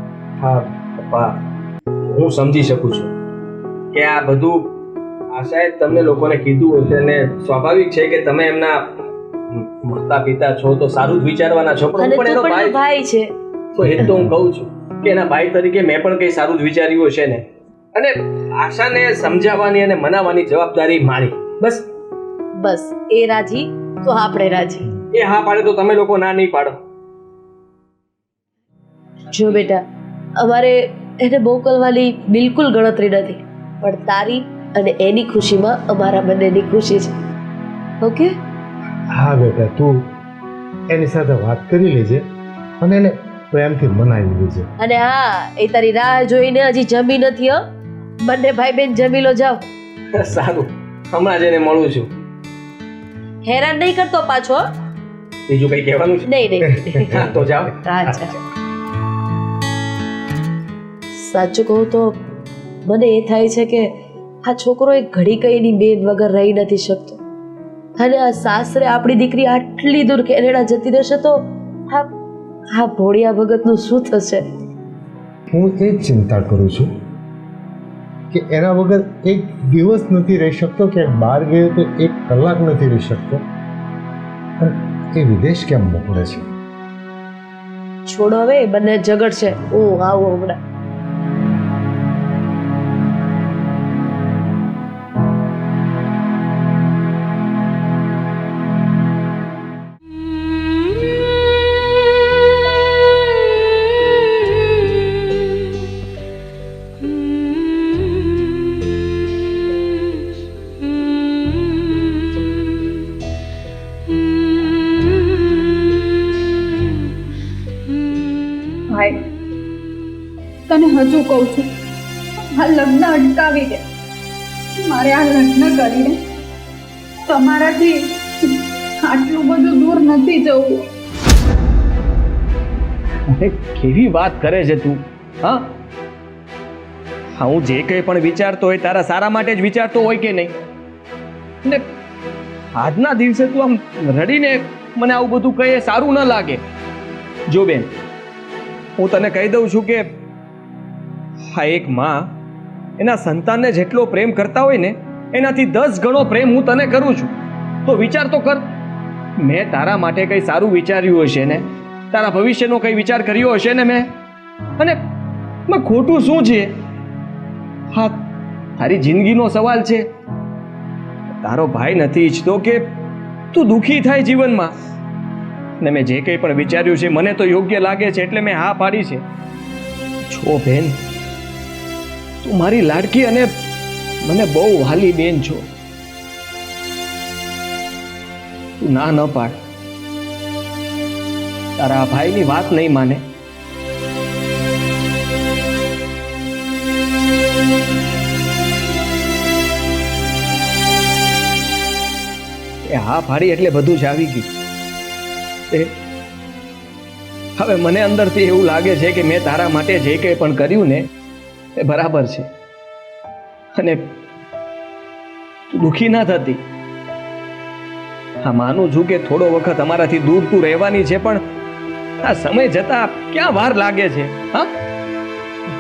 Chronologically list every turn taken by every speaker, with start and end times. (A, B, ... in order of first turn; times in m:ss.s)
0:00.4-0:01.4 A
0:02.1-0:03.1 A
0:03.9-0:04.7 A
0:05.3-0:08.9 A
0:09.5-0:12.8 A
0:12.0-0:13.3 B
0:13.8-0:21.9 A
0:22.6-0:24.9 B
0:25.1-0:26.8 A
0:29.3-0:29.8 B
0:30.4-0:37.1 B
0:38.0-0:38.4 B
0:39.1-0:40.1 C
0:40.9-0:42.2 C
0:42.8-0:44.7 C
0:44.8-0:47.6 B
0:48.2-0:49.6 B
0:50.1-0:52.1 A
0:53.4-0:54.6 B
0:55.5-0:56.3 A
0:56.2-0:57.2 B
0:56.9-0:57.4 C
0:57.1-0:57.8 A
0:57.8-0:58.4 B
1:01.2-1:02.2 B
1:02.9-1:03.9 B
1:04.4-1:07.2 B
1:08.0-1:12.1 B
1:12.7-1:14.4 B
1:15.5-1:16.9 C
1:18.3-1:23.4 C
1:24.6-1:26.5 C
1:28.1-1:30.6 B
1:58.9-1:59.2 D
2:00.7-2:01.7 D
2:02.5-2:03.8 D
2:04.8-2:06.2 D
2:07.3-2:10.9 D
2:13.3-2:15.8 A
2:17.4-2:20.6 A
2:21.6-2:21.9 A
2:22.8-2:26.6 A
2:27.5-2:27.9 A
2:29.0-2:30.1 A
2:31.5-2:32.3 A
2:33.0-2:38.7 A
2:39.4-2:44.1 A
2:45.7-2:46.7 A
2:47.9-2:48.2 A
2:48.8-2:50.0 A
2:51.4-2:52.8 A
2:53.5-2:54.7 A
2:55.8-2:59.2 A
3:00.3-3:01.0 A
3:02.4-3:03.5 A
3:04.2-3:05.7 A
3:08.8-3:09.6 A
3:11.8-3:13.2 A
3:22.9-3:24.5 A
3:27.6-3:31.1 A
3:31.8-3:32.5 A
3:33.8-3:34.1 A
3:35.7-3:36.6 A
3:38.4-3:41.4 A
3:42.2-3:44.8 A